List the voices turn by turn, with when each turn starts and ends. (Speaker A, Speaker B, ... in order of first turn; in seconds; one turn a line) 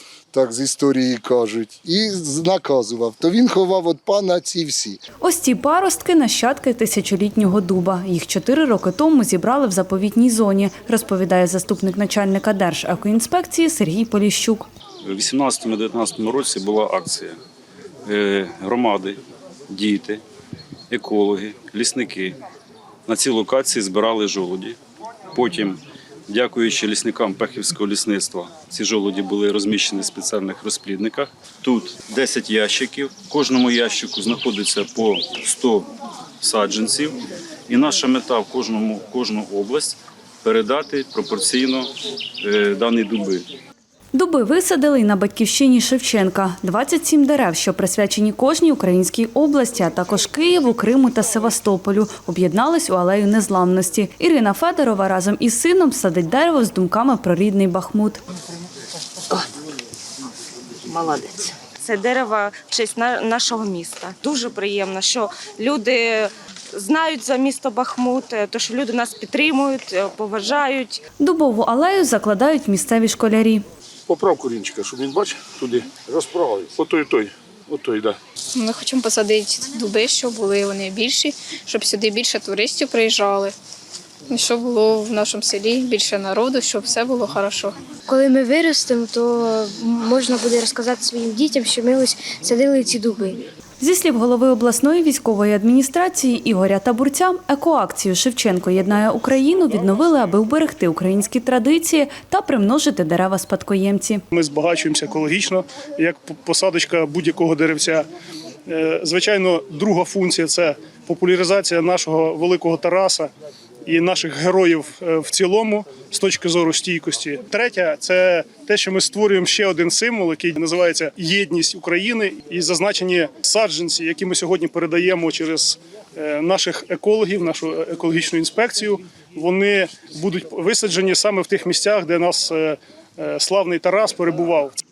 Speaker A: 0.3-5.0
Speaker B: 5.2-14.7
Speaker C: 15.0-17.4
Speaker C: 18.1-20.2
Speaker C: 20.9-22.4
Speaker C: 23.1-24.8
Speaker C: 25.3-35.9
Speaker C: 36.4-41.9
Speaker C: 42.4-43.5
Speaker B: 44.1-58.2
Speaker D: 60.9-71.0
Speaker B: 71.2-73.6
Speaker E: 74.1-78.2
Speaker F: 78.5-83.6
Speaker F: 84.3-87.8
Speaker G: 88.1-93.5
Speaker B: 93.8-104.2
Speaker H: 104.3-108.0
Speaker H: 108.7-113.3
Speaker H: 113.9-134.8